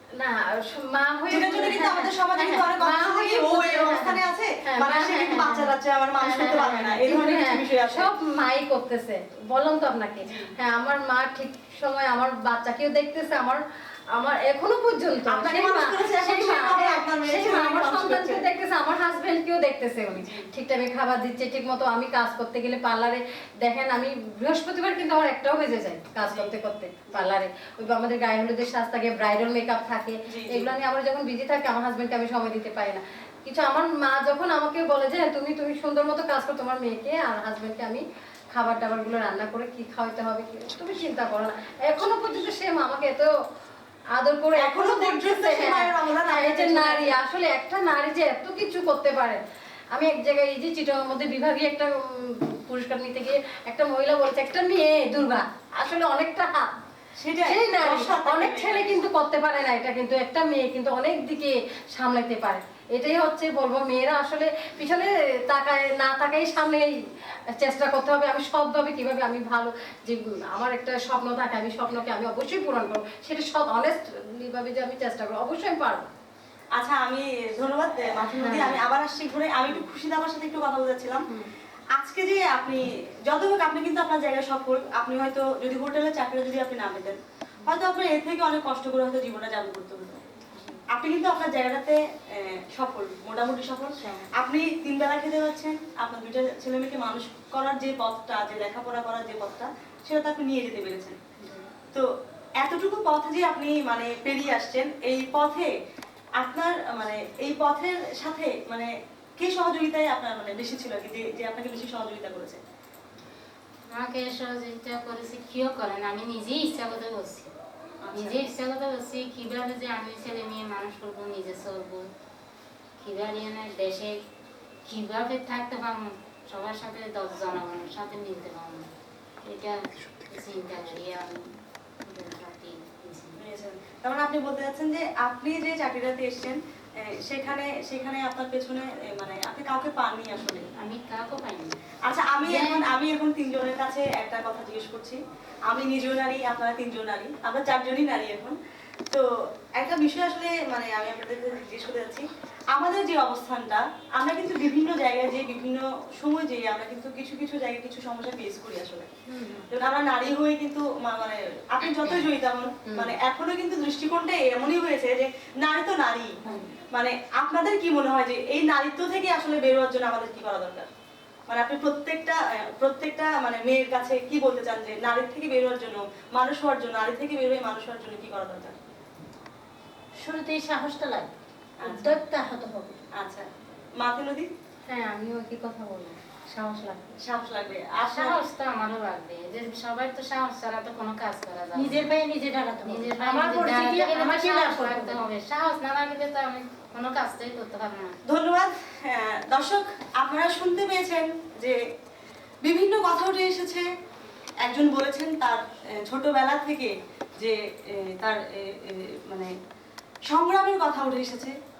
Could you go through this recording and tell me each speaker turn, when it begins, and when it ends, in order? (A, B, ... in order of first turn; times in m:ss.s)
0:00.1-0:43.3 A
0:01.3-0:08.1 B
0:10.2-0:10.5 B
0:15.3-0:18.4 B
0:20.2-0:20.5 B
0:30.3-0:30.7 B
0:44.1-0:49.4 A
0:44.6-0:47.2 B
0:49.9-0:56.7 A
0:57.2-0:59.0 B
0:57.4-1:16.1 A
1:16.7-1:21.3 B
1:18.4-1:18.9 A
1:21.9-1:30.2 B
1:30.9-1:41.2 B
1:41.4-1:41.7 C
1:41.9-1:45.7 B
1:46.4-1:52.6 B
1:53.9-1:57.5 C
1:58.0-1:58.5 B
1:58.1-2:02.1 C
2:03.0-2:04.2 C
2:04.8-2:08.9 C
2:09.4-2:13.4 C
2:13.4-2:20.7 B
2:20.7-2:21.8 C
2:22.0-2:28.6 B
2:22.4-2:22.8 C
2:29.1-2:39.1 B
2:39.3-2:39.7 A
2:39.7-2:46.4 B
2:42.9-2:43.1 A
2:46.4-2:46.8 A
2:46.9-2:50.9 B
2:51.5-2:58.8 B
3:00.2-3:03.0 D
3:01.8-3:02.2 B
3:03.1-3:04.5 B
3:04.8-3:07.2 A
3:07.2-3:08.4 B
3:08.0-3:12.0 C
3:11.7-3:15.2 D
3:12.8-3:18.2 C
3:18.2-3:21.8 B
3:22.6-3:23.9 B
3:24.6-3:29.5 B
3:30.2-3:31.6 B